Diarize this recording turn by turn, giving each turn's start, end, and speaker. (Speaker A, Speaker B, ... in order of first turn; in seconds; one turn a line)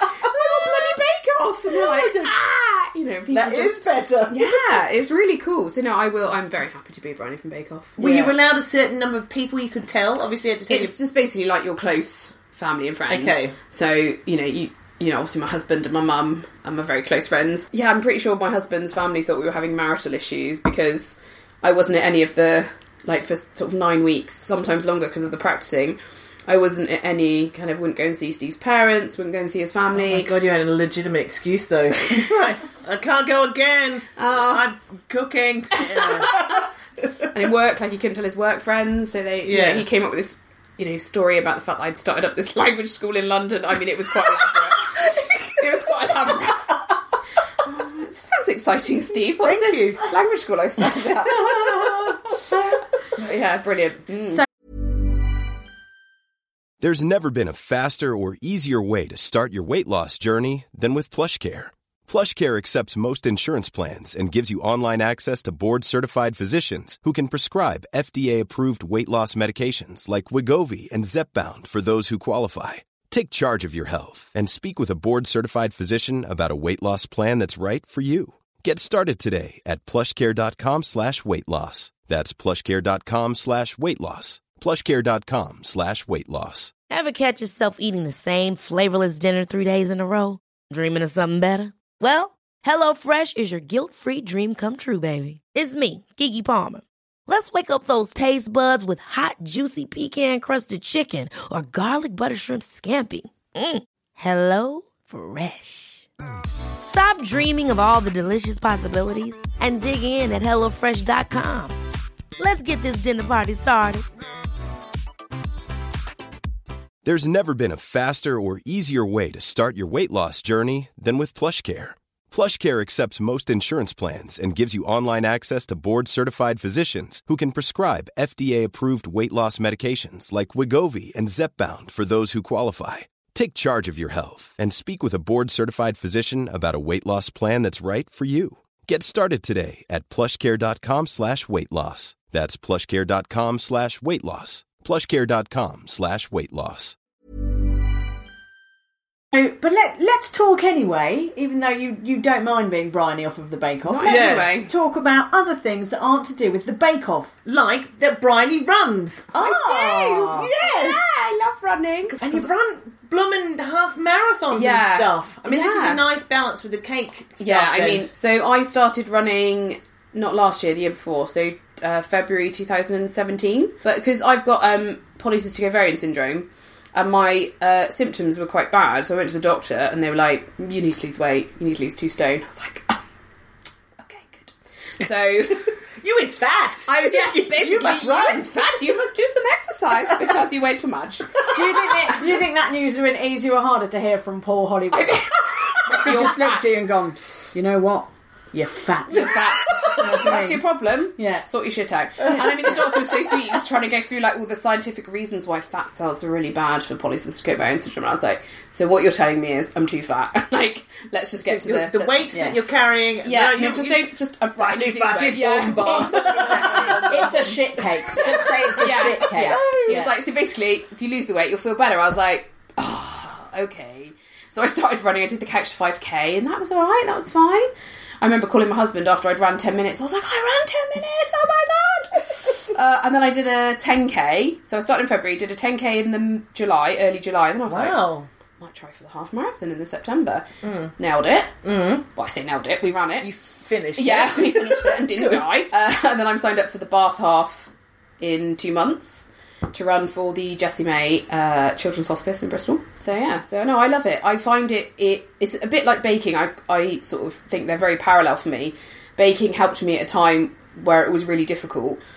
Speaker A: 0.2-8.3
Speaker B: 1.7-2.3
Speaker B: 3.3-4.6
Speaker B: 8.0-10.9
Speaker A: 10.7-30.3
Speaker B: 13.1-13.5
Speaker B: 29.9-37.3
Speaker A: 34.2-34.7
Speaker C: 35.8-36.3
Speaker A: 35.8-36.6
Speaker A: 37.3-46.9
Speaker B: 39.4-39.9
Speaker A: 47.6-52.2
Speaker B: 49.4-50.0
Speaker A: 53.1-54.4
Speaker D: 56.8-86.7
Speaker E: 86.9-106.0
Speaker E: 106.8-111.8
Speaker E: 112.4-114.0
Speaker D: 117.0-146.9
Speaker C: 149.3-157.3
Speaker A: 153.9-154.7
Speaker B: 154.0-154.5
Speaker B: 157.4-159.3
Speaker C: 159.3-160.5
Speaker A: 159.3-162.5
Speaker B: 160.3-161.1
Speaker B: 162.1-168.1
Speaker A: 164.5-166.0
Speaker A: 167.4-183.0
Speaker A: 184.0-185.7
Speaker B: 186.0-188.5
Speaker A: 186.9-191.5
Speaker C: 191.5-195.2
Speaker A: 194.9-196.8
Speaker C: 195.9-199.4
Speaker A: 199.1-212.3
Speaker C: 199.9-200.7
Speaker C: 201.2-201.4
Speaker B: 211.4-217.5
Speaker A: 213.2-240.4
Speaker C: 215.8-216.1
Speaker C: 217.0-219.6
Speaker B: 218.1-218.5
Speaker B: 219.3-220.1
Speaker B: 237.7-238.3
Speaker B: 240.6-240.9
Speaker A: 241.0-241.5
Speaker B: 241.6-242.0
Speaker A: 242.1-243.3
Speaker B: 243.2-245.5
Speaker A: 243.9-262.0